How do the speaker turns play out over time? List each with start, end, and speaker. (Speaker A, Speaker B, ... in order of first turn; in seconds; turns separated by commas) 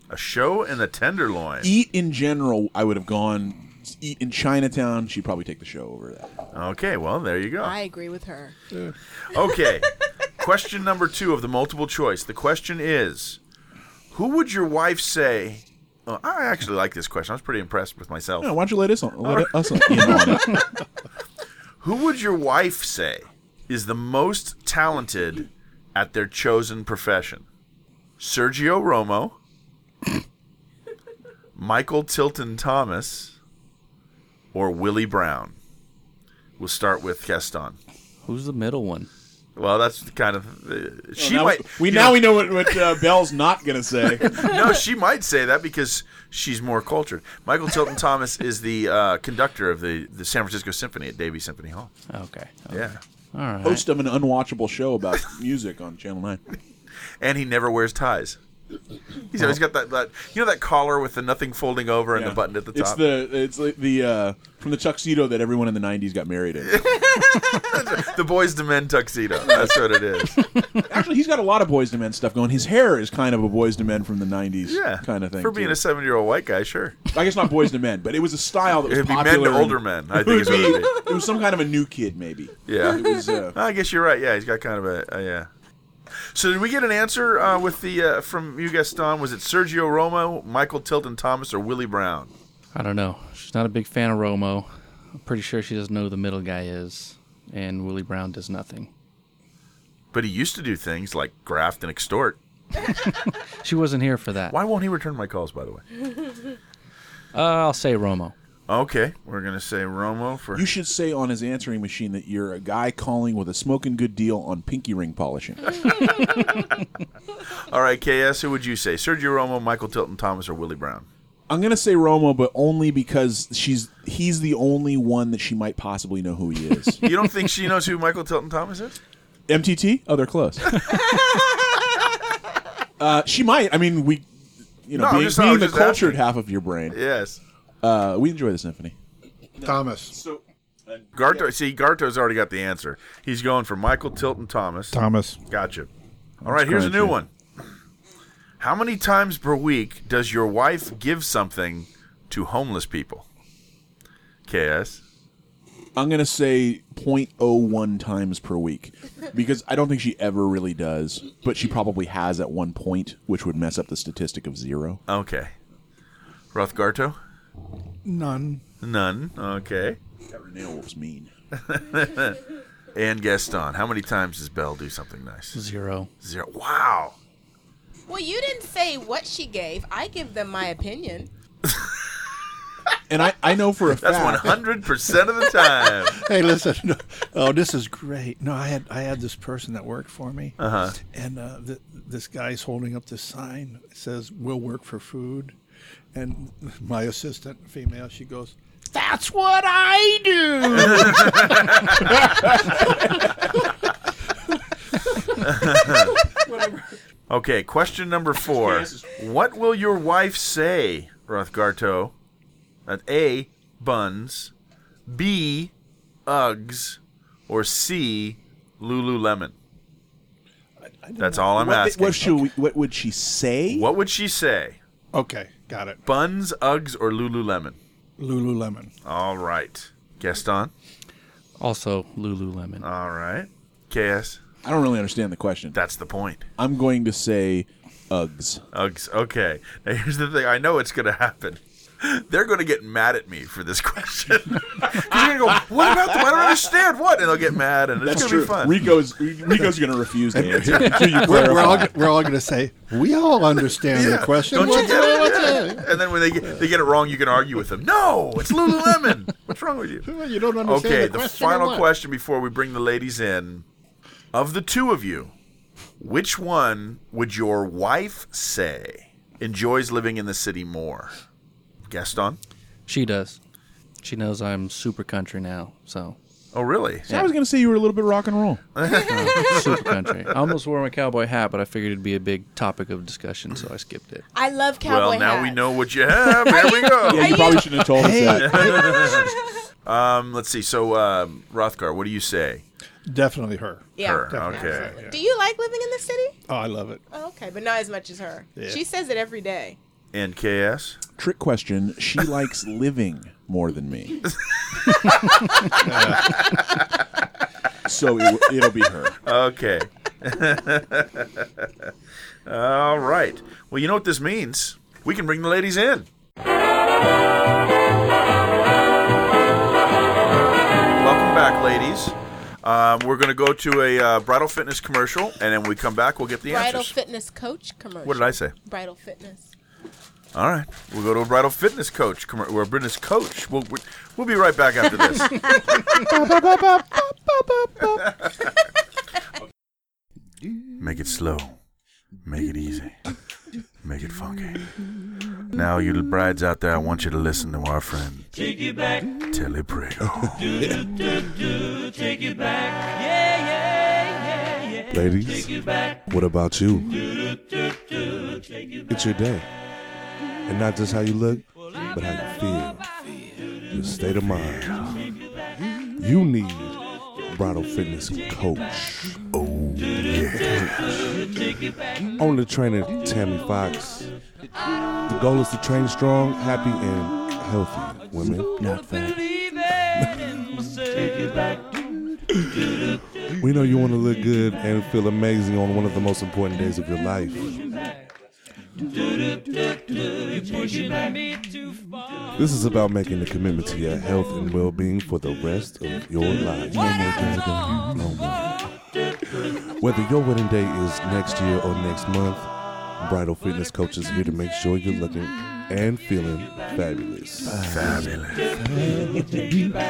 Speaker A: 0.1-1.7, Speaker B: 1.6-6.3, Speaker A: 6.5-7.7, Speaker C: 7.6-8.6, Speaker A: 9.3-13.4, Speaker A: 14.1-18.5, Speaker B: 18.4-20.6, Speaker A: 19.2-20.6, Speaker A: 21.8-27.4, Speaker A: 28.2-29.4, Speaker A: 31.6-33.4, Speaker A: 34.5-35.6, Speaker A: 36.6-37.8, Speaker D: 38.2-39.1, Speaker A: 39.6-42.9, Speaker B: 41.2-44.6, Speaker A: 44.3-51.9, Speaker D: 52.1-53.9, Speaker A: 52.7-53.0, Speaker B: 53.6-56.4, Speaker A: 57.2-58.4, Speaker A: 59.3-63.0, Speaker B: 62.1-66.8, Speaker A: 66.7-70.4, Speaker B: 69.4-69.7, Speaker B: 70.9-75.8, Speaker A: 74.7-77.0, Speaker B: 77.1-83.6, Speaker A: 78.8-81.1, Speaker A: 82.7-85.5, Speaker A: 86.3-92.3, Speaker D: 92.7-98.9, Speaker A: 100.1-102.4, Speaker D: 103.6-104.6, Speaker A: 104.5-105.8, Speaker D: 107.3-108.3, Speaker A: 108.7-110.7, Speaker B: 110.5-115.9, Speaker A: 115.9-116.7, Speaker A: 117.7-121.1, Speaker B: 121.5-127.0, Speaker A: 127.0-129.0, Speaker B: 129.5-131.0, Speaker B: 133.0-134.3, Speaker B: 134.8-137.0, Speaker A: 134.9-136.2, Speaker A: 136.9-137.4, Speaker B: 137.8-139.0, Speaker B: 139.6-141.5, Speaker E: 139.6-140.1, Speaker A: 141.2-145.0, Speaker E: 144.9-145.4, Speaker A: 145.5-145.9, Speaker B: 146.4-147.2, Speaker A: 146.4-147.3, Speaker A: 148.6-153.2, Speaker A: 154.5-155.0, Speaker B: 155.9-165.0, Speaker A: 165.1-165.5, Speaker A: 166.5-167.2, Speaker E: 168.1-168.6, Speaker A: 168.8-170.0, Speaker B: 170.3-171.3, Speaker A: 171.6-172.4, Speaker A: 172.9-175.6, Speaker D: 175.5-176.1, Speaker A: 176.2-177.2, Speaker C: 178.1-181.3, Speaker A: 181.7-181.9, Speaker B: 183.1-184.6, Speaker A: 184.0-186.2, Speaker E: 185.8-195.6, Speaker A: 190.6-191.0, Speaker E: 196.1-203.0, Speaker A: 200.7-202.2, Speaker A: 205.4-206.2, Speaker A: 207.3-212.1, Speaker B: 208.5-209.2, Speaker A: 212.9-214.5, Speaker A: 215.1-215.7, Speaker A: 216.3-219.5, Speaker E: 220.8-221.7, Speaker A: 221.2-222.4, Speaker B: 221.5-223.9, Speaker A: 223.7-224.8, Speaker E: 225.1-226.0, Speaker A: 226.1-227.8, Speaker E: 228.2-228.9, Speaker A: 229.1-230.7, Speaker D: 231.6-232.8, Speaker A: 232.8-234.4, Speaker B: 234.6-235.8, Speaker A: 235.7-236.5, Speaker B: 236.6-238.6, Speaker A: 238.7-248.8, Speaker B: 244.9-246.2, Speaker B: 248.0-252.2, Speaker E: 250.3-255.9, Speaker A: 253.9-260.1, Speaker E: 260.0-261.9, Speaker A: 260.6-263.6, Speaker A: 264.3-265.3, Speaker A: 266.0-271.1, Speaker A: 271.9-272.4, Speaker D: 272.9-273.4, Speaker D: 274.0-276.2, Speaker A: 276.5-277.1, Speaker B: 277.1-278.6, Speaker A: 278.8-280.3, Speaker D: 279.0-284.2, Speaker C: 284.3-285.6, Speaker A: 284.9-287.6, Speaker C: 286.4-287.8, Speaker B: 287.1-289.0, Speaker E: 287.9-289.3, Speaker A: 288.3-289.3, Speaker A: 289.9-292.6, Speaker E: 293.1-295.2, Speaker C: 294.0-296.4, Speaker A: 294.0-294.9, Speaker E: 296.5-297.0, Speaker C: 297.1-299.8, Speaker A: 300.1-301.0, Speaker B: 301.2-304.3, Speaker A: 304.8-305.0, Speaker E: 305.8-306.4, Speaker A: 306.3-306.6, Speaker B: 307.9-309.2, Speaker A: 309.2-311.9, Speaker A: 312.5-316.1, Speaker A: 321.0-326.9, Speaker C: 326.5-329.5, Speaker A: 328.0-328.5, Speaker A: 330.3-336.8, Speaker A: 337.9-338.3, Speaker A: 340.8-341.6, Speaker A: 342.2-343.0, Speaker A: 343.8-344.7, Speaker A: 345.5-348.4, Speaker A: 349.3-351.0, Speaker F: 354.9-357.2, Speaker F: 358.9-359.5, Speaker F: 360.5-362.9, Speaker F: 363.7-364.9, Speaker A: 364.5-365.1, Speaker F: 366.0-369.2, Speaker A: 369.3-370.8, Speaker B: 370.5-370.8, Speaker F: 372.2-374.1, Speaker F: 375.1-378.6, Speaker B: 378.4-379.3, Speaker B: 380.0-380.4, Speaker F: 383.4-387.6, Speaker F: 392.4-398.6, Speaker F: 399.8-408.0, Speaker A: 407.5-408.6, Speaker F: 408.7-409.5